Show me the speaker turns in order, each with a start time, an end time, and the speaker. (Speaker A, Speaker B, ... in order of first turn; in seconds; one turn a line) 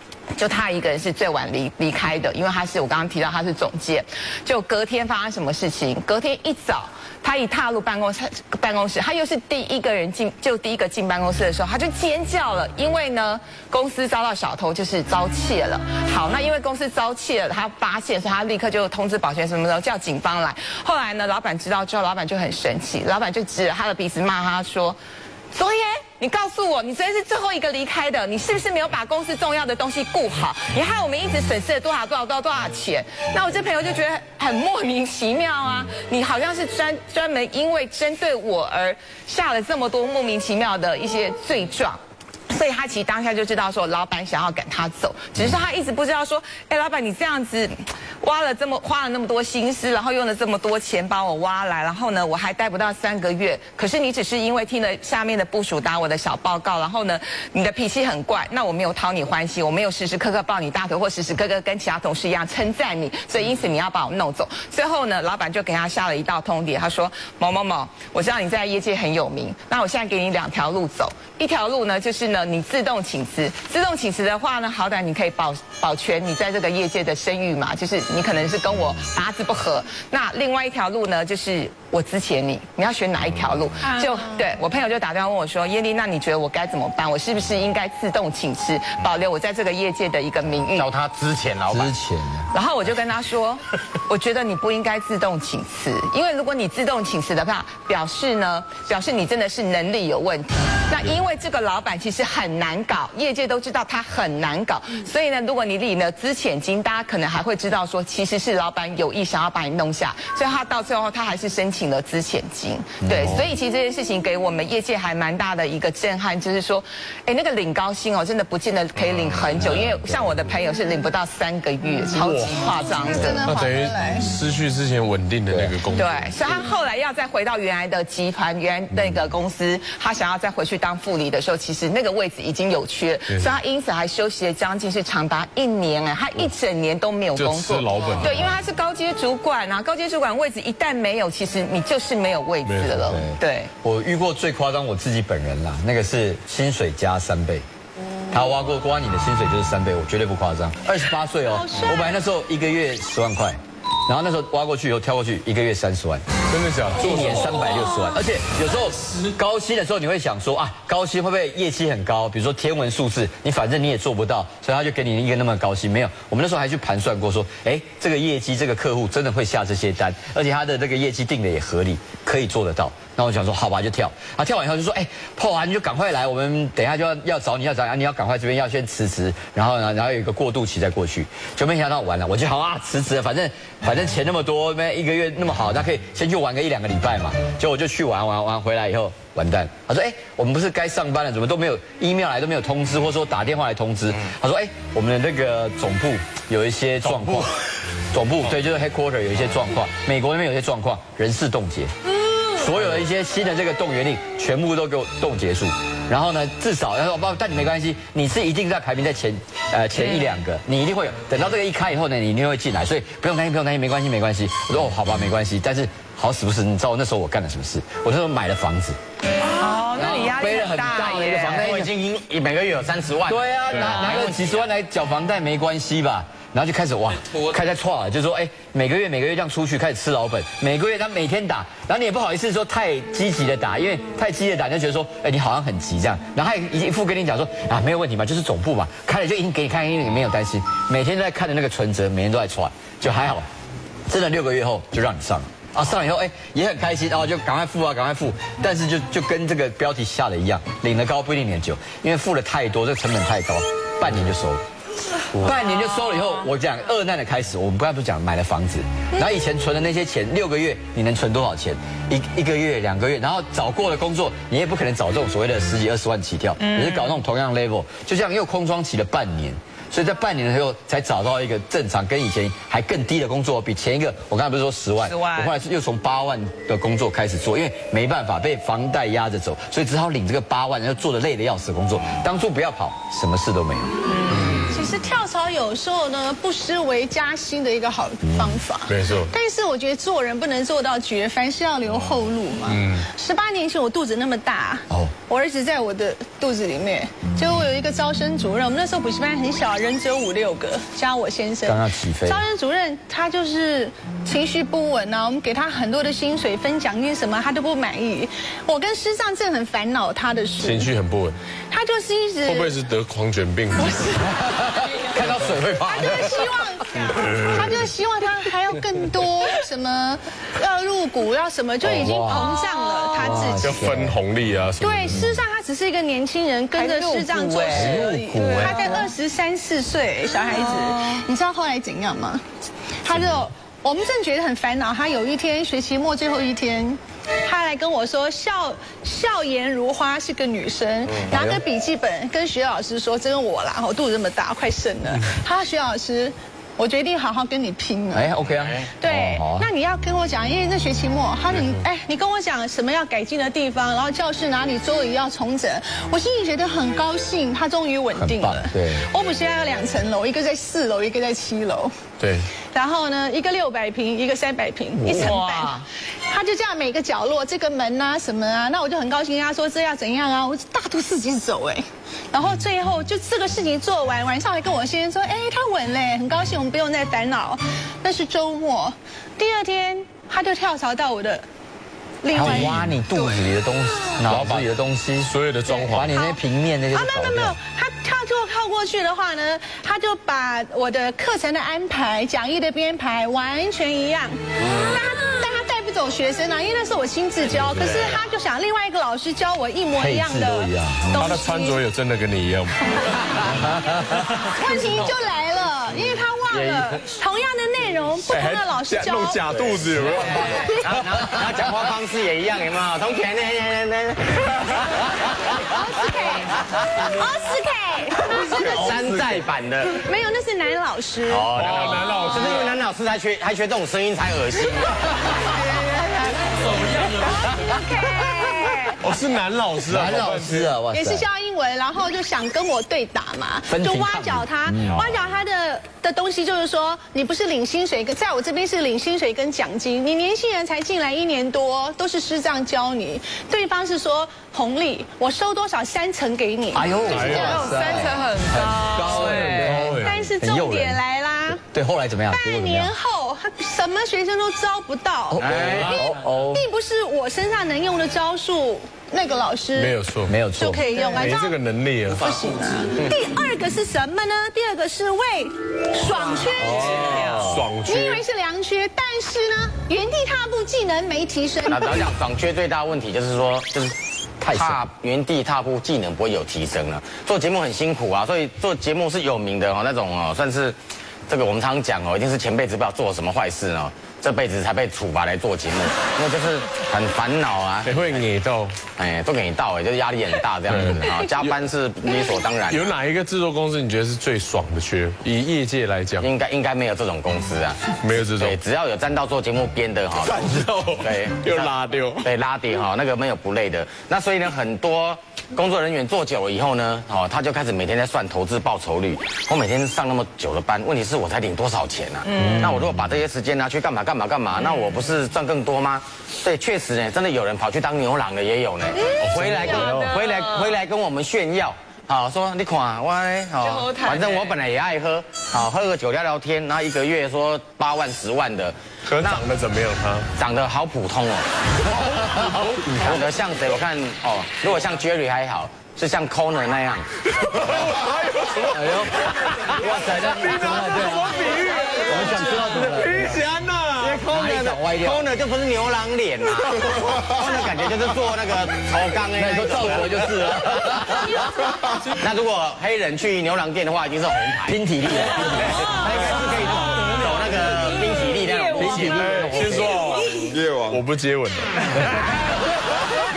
Speaker A: 0.3-25.0
Speaker A: 25.5-42.0
Speaker A: 42.5-90.9
Speaker B: 83.8-84.4
Speaker C: 90.7-91.9
Speaker D: 91.7-92.5
Speaker A: 92.5-123.5
Speaker D: 113.0-113.5
Speaker E: 119.0-119.6
Speaker D: 119.6-120.2
Speaker E: 122.1-122.7
Speaker B: 123.1-124.3
Speaker E: 123.4-126.7
Speaker D: 125.5-125.8
Speaker A: 125.9-143.7
Speaker E: 133.3-133.6
Speaker E: 137.3-138.6
Speaker E: 142.7-143.1
Speaker D: 143.1-147.6
Speaker D: 148.3-156.2
Speaker B: 151.5-152.2
Speaker E: 156.5-157.6
Speaker D: 156.9-197.5
Speaker D: 198.1-201.9
Speaker D: 202.5-219.0
Speaker A: 219.4-221.7
Speaker D: 219.9-221.9
Speaker C: 221.6-224.7
Speaker D: 223.3-243.5
Speaker D: 244.1-254.6
Speaker D: 255.3-283.9
Speaker A: 266.6-267.2
Speaker A: 275.0-275.6
Speaker A: 284.1-284.6
Speaker E: 284.3-284.7
Speaker B: 284.7-310.9
Speaker D: 288.2-288.6
Speaker E: 288.9-289.3
Speaker E: 292.6-293.1
Speaker D: 301.6-302.4
Speaker E: 310.6-311.4
Speaker B: 311.7-312.8
Speaker E: 312.4-314.2
Speaker B: 314.0-314.3
Speaker D: 314.3-316.5
Speaker B: 315.8-323.8
Speaker E: 317.3-317.7
Speaker E: 321.8-322.5
Speaker D: 321.8-322.6
Speaker D: 323.1-324.2
Speaker E: 323.6-325.3
Speaker B: 324.8-332.4
Speaker D: 325.1-325.4
Speaker A: 326.7-329.1
Speaker D: 327.7-328.8
Speaker A: 330.6-331.2
Speaker B: 333.0-348.3
Speaker D: 333.1-333.4
Speaker D: 341.3-341.6
Speaker D: 348.1-349.7
Speaker C: 348.6-348.9
Speaker B: 349.0-361.9
Speaker E: 351.5-351.8
Speaker D: 358.1-359.1
Speaker E: 362.2-362.5
Speaker B: 362.7-365.7
Speaker D: 365.0-365.3
Speaker A: 365.0-365.9
Speaker B: 366.3-381.4
Speaker B: 382.2-383.0
Speaker D: 382.3-385.3
Speaker E: 382.4-382.7
Speaker E: 384.2-384.7
Speaker E: 385.3-386.2
Speaker D: 385.9-387.6
Speaker B: 386.1-401.8
Speaker E: 397.5-398.2
Speaker D: 399.9-401.4
Speaker E: 401.1-403.5
Speaker B: 404.4-409.5
Speaker E: 408.2-410.7
Speaker C: 410.4-416.8
Speaker B: 410.5-410.8
Speaker B: 415.6-419.0
Speaker C: 418.3-420.0
Speaker B: 420.0-421.6
Speaker C: 421.2-425.8
Speaker E: 421.5-422.8
Speaker B: 426.9-429.0
Speaker E: 429.0-430.7
Speaker D: 429.9-431.3
Speaker B: 430.9-448.1
Speaker D: 433.7-435.1
Speaker D: 446.7-451.0
Speaker E: 447.1-447.6
Speaker A: 447.3-449.8
Speaker E: 449.2-450.3
Speaker B: 449.7-451.6
Speaker D: 451.7-452.9
Speaker B: 452.3-455.4
Speaker D: 455.3-456.6
Speaker C: 455.4-456.0
Speaker E: 455.6-455.8
Speaker B: 456.0-461.6
Speaker E: 459.7-460.4
Speaker D: 460.3-460.9
Speaker E: 461.0-462.5
Speaker B: 462.1-467.1
Speaker A: 466.4-467.4
Speaker D: 466.5-467.7
Speaker E: 467.4-468.2
Speaker B: 467.8-472.1
Speaker C: 471.6-473.9
Speaker D: 474.4-474.8
Speaker C: 474.5-480.8
Speaker C: 481.3-488.2
Speaker E: 487.8-488.8
Speaker C: 489.0-492.9
Speaker E: 490.7-491.6
Speaker E: 492.7-496.3
Speaker C: 496.2-529.4
Speaker E: 498.0-498.6
Speaker E: 500.2-502.3
Speaker A: 512.3-512.7
Speaker D: 512.4-513.1
Speaker E: 519.2-520.1
Speaker A: 519.6-520.7
Speaker A: 523.6-524.5
Speaker E: 529.1-530.3
Speaker C: 530.4-531.5
Speaker E: 532.2-532.9
Speaker D: 532.4-533.2
Speaker C: 532.9-537.6
Speaker E: 537.3-544.2
Speaker D: 538.6-543.4
Speaker C: 539.7-541.4
Speaker C: 542.0-542.7
Speaker C: 544.0-551.2
Speaker D: 544.2-545.2
Speaker D: 549.3-551.5
Speaker C: 551.9-554.8
Speaker D: 554.7-555.9
Speaker C: 555.6-559.4
Speaker B: 558.4-558.9
Speaker D: 558.7-560.0
Speaker E: 559.0-562.3